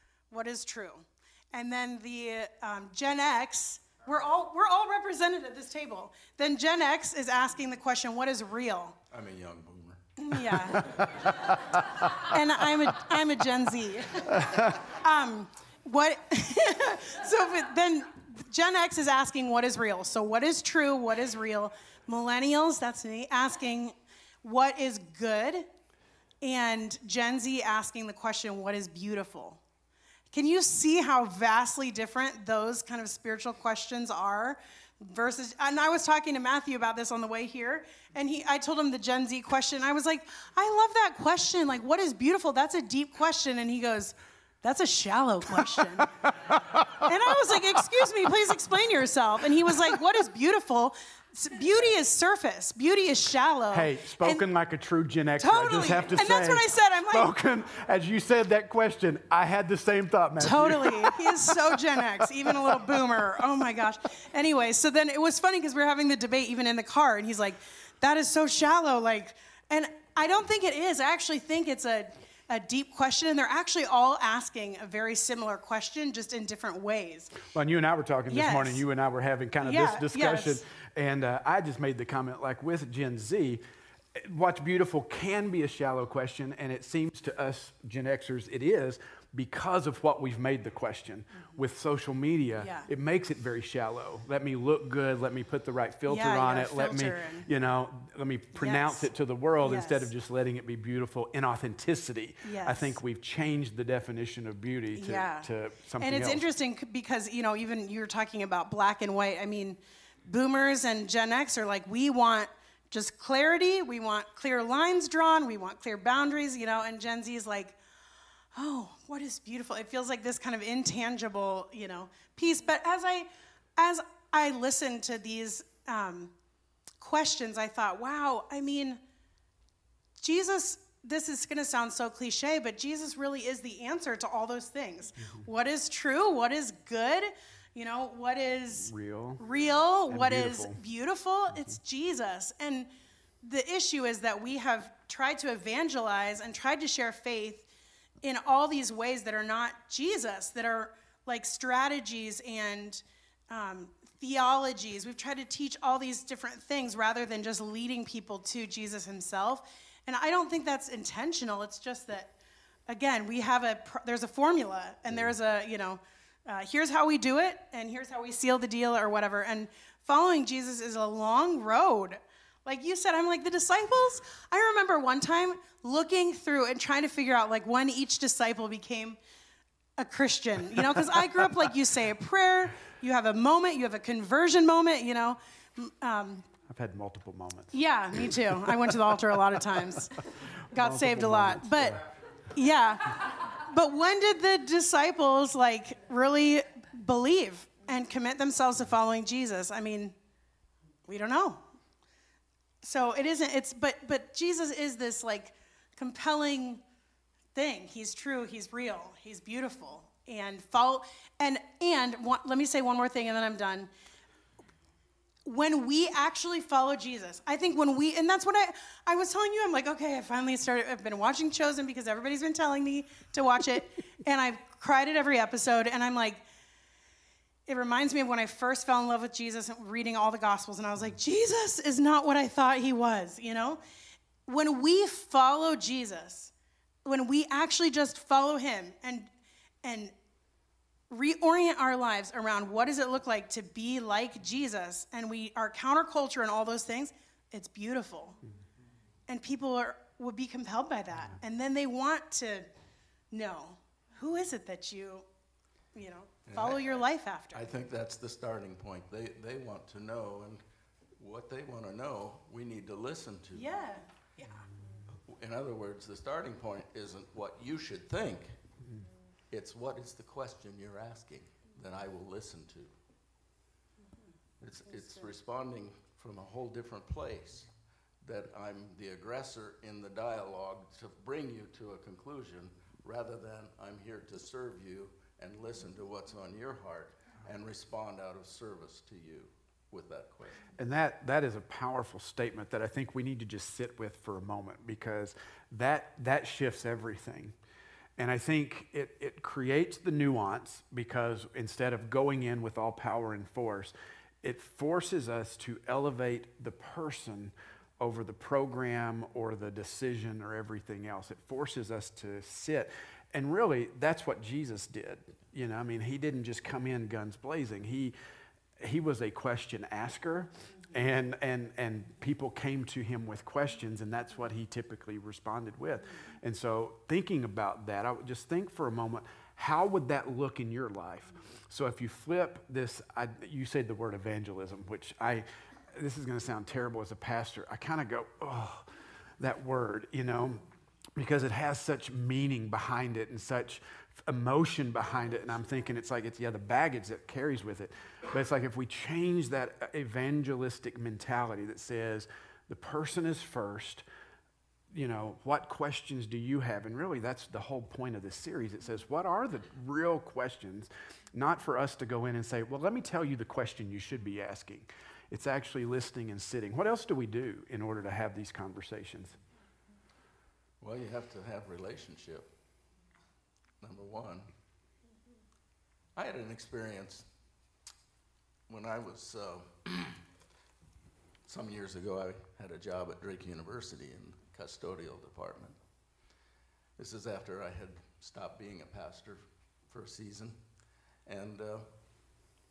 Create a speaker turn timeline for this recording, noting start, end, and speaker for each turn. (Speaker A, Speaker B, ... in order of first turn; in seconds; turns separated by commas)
Speaker A: 0.3-9.0, Speaker B: 9.1-10.1, Speaker A: 10.2-11.1, Speaker C: 10.7-12.3, Speaker A: 12.2-25.7, Speaker C: 14.4-14.8, Speaker A: 26.4-29.6, Speaker A: 30.3-46.1, Speaker C: 46.4-47.1, Speaker A: 47.0-54.4, Speaker C: 53.7-62.0, Speaker A: 55.4-57.3, Speaker A: 60.4-77.4, Speaker C: 77.4-83.6, Speaker A: 78.3-78.8, Speaker A: 79.6-80.6, Speaker C: 84.1-106.4, Speaker A: 92.6-92.9, Speaker A: 96.1-97.5, Speaker A: 98.5-99.1, Speaker A: 99.6-100.1, Speaker A: 102.4-102.9, Speaker A: 104.9-117.8, Speaker A: 118.5-126.3, Speaker A: 127.0-129.0, Speaker A: 130.2-142.9, Speaker C: 138.8-139.4, Speaker C: 140.1-140.8, Speaker A: 143.4-147.7, Speaker A: 148.2-162.3, Speaker A: 162.9-179.2, Speaker A: 180.0-186.5, Speaker C: 186.7-188.8, Speaker A: 187.7-190.2, Speaker C: 190.7-192.1, Speaker A: 190.7-200.1, Speaker A: 201.1-201.6, Speaker A: 202.8-206.8, Speaker A: 207.5-213.9, Speaker A: 215.4-226.4, Speaker A: 227.7-233.8, Speaker A: 234.4-236.5, Speaker A: 237.0-239.3, Speaker A: 239.8-240.1, Speaker A: 241.1-248.4, Speaker A: 249.3-252.7, Speaker A: 253.3-255.2, Speaker A: 255.9-257.7, Speaker B: 256.4-260.6, Speaker B: 261.2-263.7, Speaker A: 263.5-264.6, Speaker B: 265.1-268.6, Speaker B: 269.5-272.9, Speaker B: 274.6-290.7, Speaker C: 290.8-297.5, Speaker C: 298.2-318.1, Speaker C: 318.8-338.9, Speaker C: 339.4-340.6, Speaker C: 341.2-354.0, Speaker C: 354.9-369.4, Speaker B: 370.8-372.5, Speaker B: 373.8-374.5, Speaker B: 376.1-377.3, Speaker B: 378.7-380.2, Speaker B: 381.4-385.8, Speaker B: 387.0-390.6, Speaker B: 391.2-391.9